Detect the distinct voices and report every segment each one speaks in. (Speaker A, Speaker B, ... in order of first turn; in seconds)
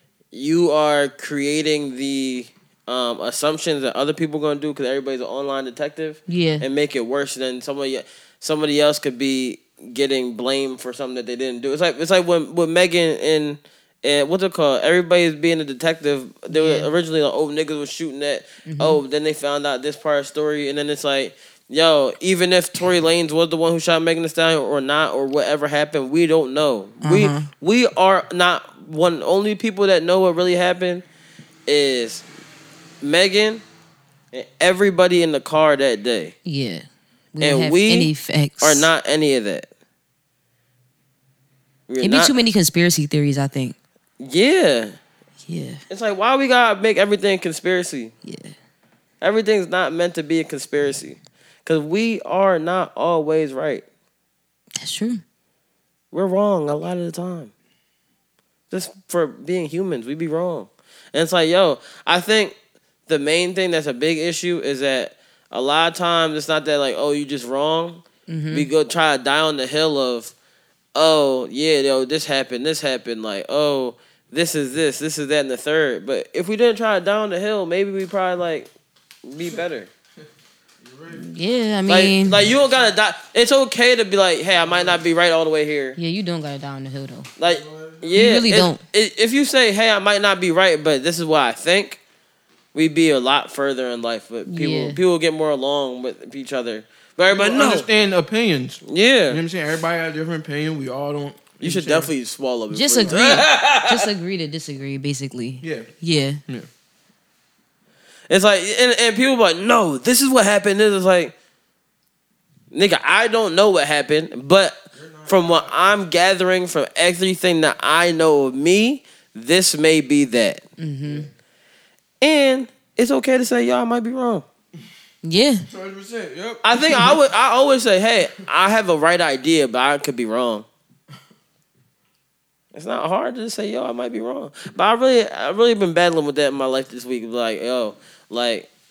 Speaker A: 0.3-31.0, 31.7-32.2, 33.0-33.6, 34.3-36.4, 37.4-38.1, 38.6-39.7, 41.9-42.3, 44.2-45.0, 45.9-48.1, 49.2-53.9, 56.1-57.5, 58.7-62.5, 63.1-70.3, 71.0-78.7, 79.2-79.9, 81.9-86.0, 87.4-92.0, 92.7-97.9, 98.9-99.4, 101.6-104.1, 108.3-111.3, 112.7-120.6, 122.2-124.5, 126.6-130.7, 132.7-138.7
Speaker B: 6.3-6.7, 16.5-16.9, 18.7-19.0, 27.0-27.5, 36.5-38.9, 42.0-43.8, 45.5-45.8, 48.2-48.5, 54.8-55.2, 68.3-68.7, 81.1-82.4, 86.0-87.3, 88.2-88.8, 94.5-95.0, 102.7-106.4, 120.8-121.3, 125.2-125.7
Speaker C: 80.8-81.3, 82.6-82.9, 84.6-85.0, 87.4-88.2, 97.3-102.1, 105.6-105.9, 114.9-115.7, 125.7-127.1